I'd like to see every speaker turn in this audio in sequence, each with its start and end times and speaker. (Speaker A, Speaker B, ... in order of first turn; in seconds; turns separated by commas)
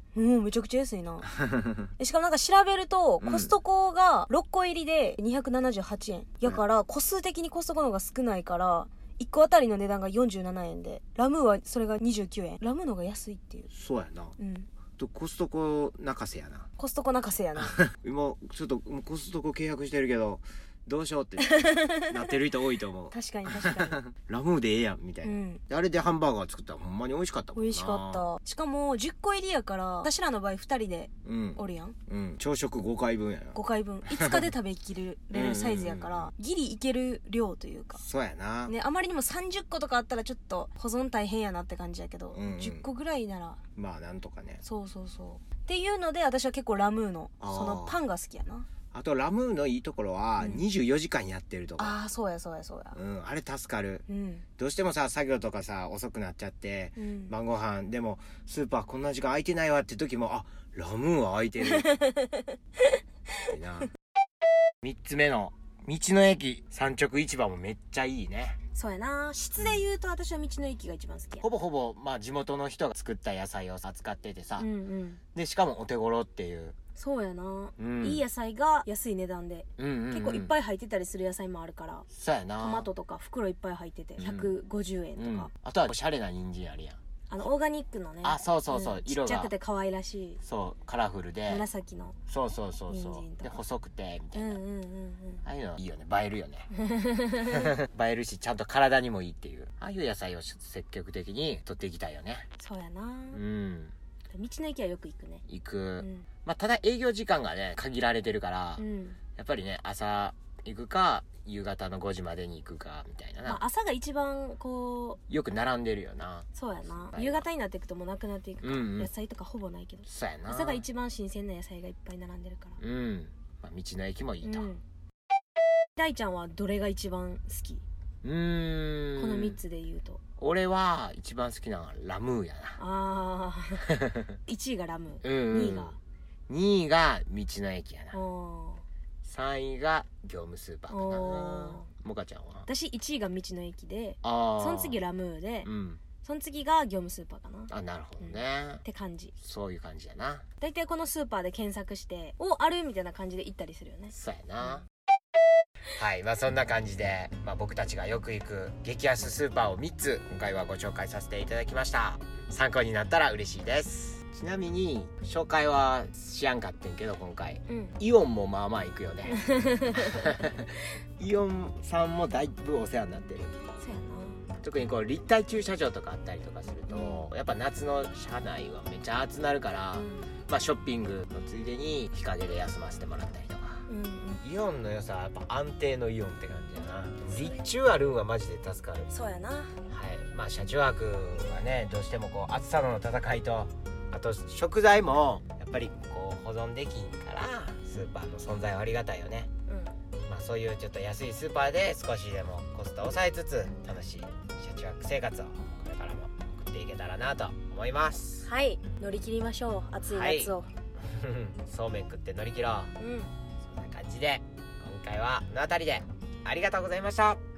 Speaker A: 0.1-1.3, Speaker B: 1.4-1.9, Speaker A: 2.0-13.7, Speaker B: 3.2-3.5, Speaker B: 13.7-14.4, Speaker A: 14.4-14.7, Speaker B: 15.0-16.7, Speaker A: 16.8-17.8, Speaker B: 17.6-28.2, Speaker A: 21.4-22.2, Speaker A: 23.1-24.0, Speaker A: 25.2-25.6, Speaker A: 27.6-31.9, Speaker B: 31.2-34.5, Speaker A: 33.5-38.0, Speaker B: 35.3-36.3, Speaker B: 38.0-38.7, Speaker A: 38.6-43.6, Speaker B: 42.3-42.9, Speaker B: 43.8-44.6, Speaker A: 44.6-48.7, Speaker B: 47.4-48.0, Speaker B: 48.9-52.0, Speaker A: 50.4-50.6, Speaker A: 51.8-53.0, Speaker B: 52.9-54.0, Speaker A: 54.1-54.4, Speaker B: 54.6-61.9, Speaker A: 57.0-57.3, Speaker A: 61.6-62.5, Speaker B: 63.5-63.9, Speaker B: 64.8-68.6, Speaker A: 68.7-71.5, Speaker B: 71.4-74.7, Speaker A: 74.6-75.2, Speaker B: 75.3-76.8, Speaker A: 77.0-82.1, Speaker B: 77.8-78.2, Speaker B: 79.8-80.5, Speaker B: 82.1-82.9, Speaker A: 82.6-85.5, Speaker B: 84.2-84.5, Speaker B: 85.2-87.0, Speaker A: 87.3-90.4, Speaker B: 88.2-89.5, Speaker B: 90.4-91.7, Speaker A: 91.5-92.2, Speaker B: 92.3-94.6, Speaker A: 92.9-93.6, Speaker A: 94.3-95.4, Speaker B: 95.4-96.7, Speaker A: 96.8-97.7, Speaker B: 97.4-102.5, Speaker A: 102.6-103.4, Speaker B: 103.3-103.9, Speaker A: 104.3-105.4, Speaker B: 105.5-108.8, Speaker A: 106.0-106.2, Speaker A: 108.8-109.2, Speaker B: 109.4-113.6, Speaker A: 113.4-115.2, Speaker B: 115.3-117.5, Speaker A: 116.5-122.8, Speaker B: 118.6-119.1, Speaker B: 120.1-120.8, Speaker B: 122.8-124.7, Speaker A: 124.4-124.8, Speaker A: 126.0-127.8, Speaker B: 128.2-129.6, Speaker A: 129.2-130.2, Speaker B: 130.4-132.8, Speaker A: 132.8-133.9, Speaker B: 133.8-134.2, Speaker A: 134.4-136.0, Speaker B: 135.2-136.0, Speaker B: 136.5-138.2, Speaker A: 138.1-138.8, Speaker B: 139.2-142.7, Speaker A: 140.9-141.9, Speaker A: 142.7-145.7, Speaker B: 144.2-145.0, Speaker B: 145.6-146.0, Speaker A: 146.2-147.7, Speaker B: 147.7-148.8, Speaker A: 148.2-149.3, Speaker B: 149.4-150.4, Speaker A: 150.6-154.1, Speaker B: 154.1-154.9, Speaker B: 155.9-173.5, Speaker A: 167.7-167.9, Speaker A: 169.3-170.3, Speaker A: 173.8-174.4, Speaker B: 174.6-183.9, Speaker A: 176.9-177.2, Speaker A: 179.9-180.3, Speaker A: 183.9-184.4, Speaker B: 184.4-189.1, Speaker A: 189.1-189.8, Speaker B: 189.9-199.5, Speaker A: 199.7-199.9, Speaker B: 200.3-208.5, Speaker A: 208.4-210.7, Speaker B: 210.0-212.9, Speaker A: 213.0-213.3, Speaker B: 213.6-217.4